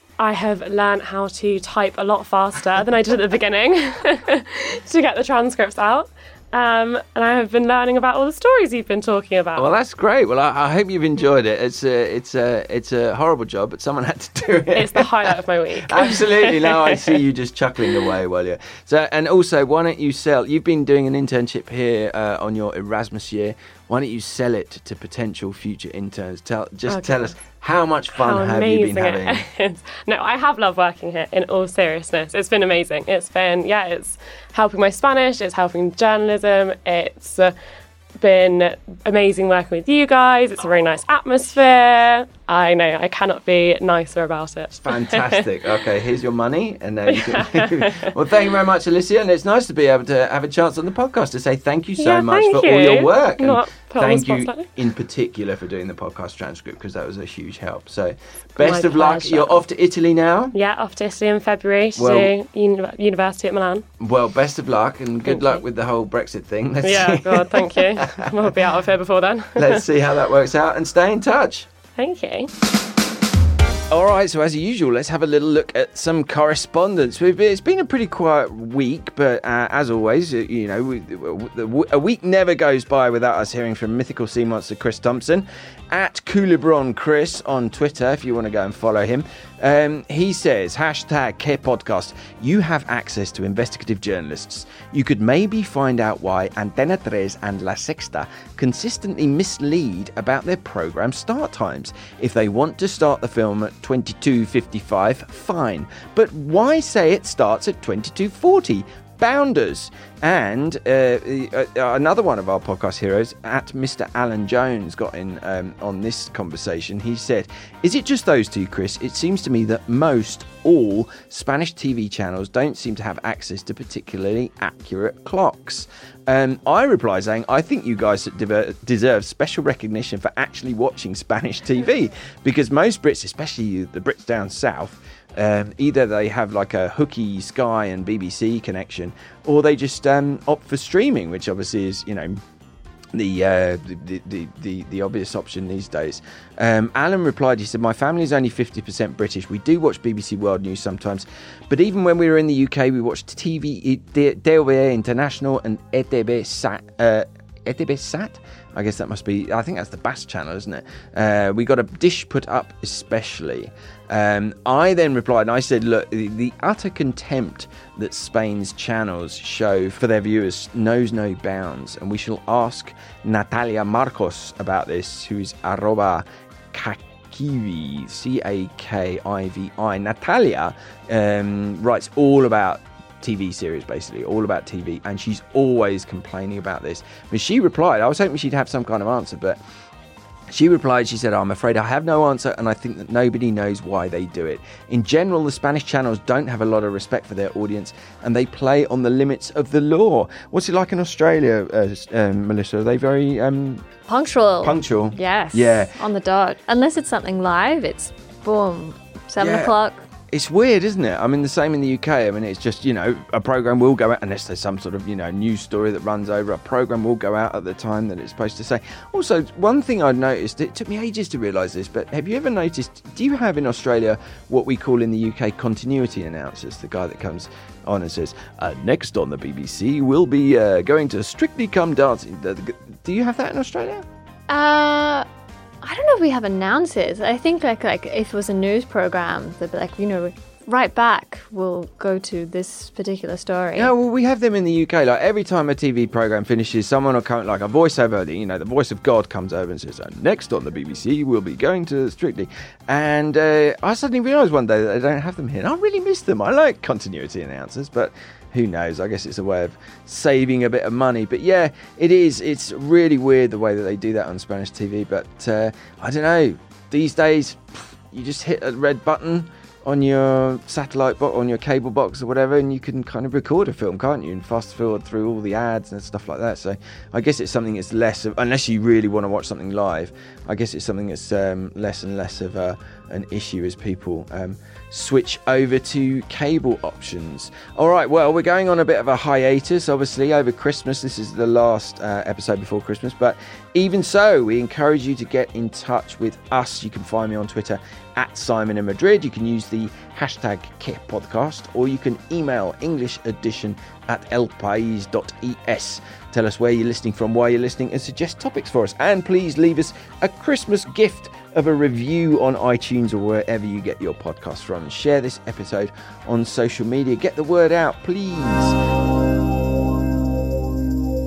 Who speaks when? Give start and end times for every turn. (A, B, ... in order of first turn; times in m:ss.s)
0:00.2-0:09.7 A
0:09.6-0:15.3 B
0:14.7-0:17.2 A
0:15.9-0:29.4 B
0:26.9-0:27.3 A
0:28.1-0:37.6 A
0:38.2-0:45.5 A
0:44.8-1:00.5 B
0:47.1-0:48.1 A
0:52.0-0:54.7 A
0:58.6-0:59.6 A
1:00.5-1:03.9 A
1:02.0-1:02.3 B
1:04.0-1:08.3 B
1:05.3-1:05.6 A
1:06.8-1:09.8 A
1:09.6-1:11.7 B
1:12.0-1:12.5 A
1:13.9-2:22.4 B
2:23.1-3:09.6 B
3:10.5-3:23.8 B
3:24.1-3:30.0 C
3:24.6-3:25.9 B
3:29.4-3:29.7 B
3:30.3-3:54.1 B
3:54.5-3:55.3 C
3:55.8-4:03.9 C
4:03.8-5:18.8 B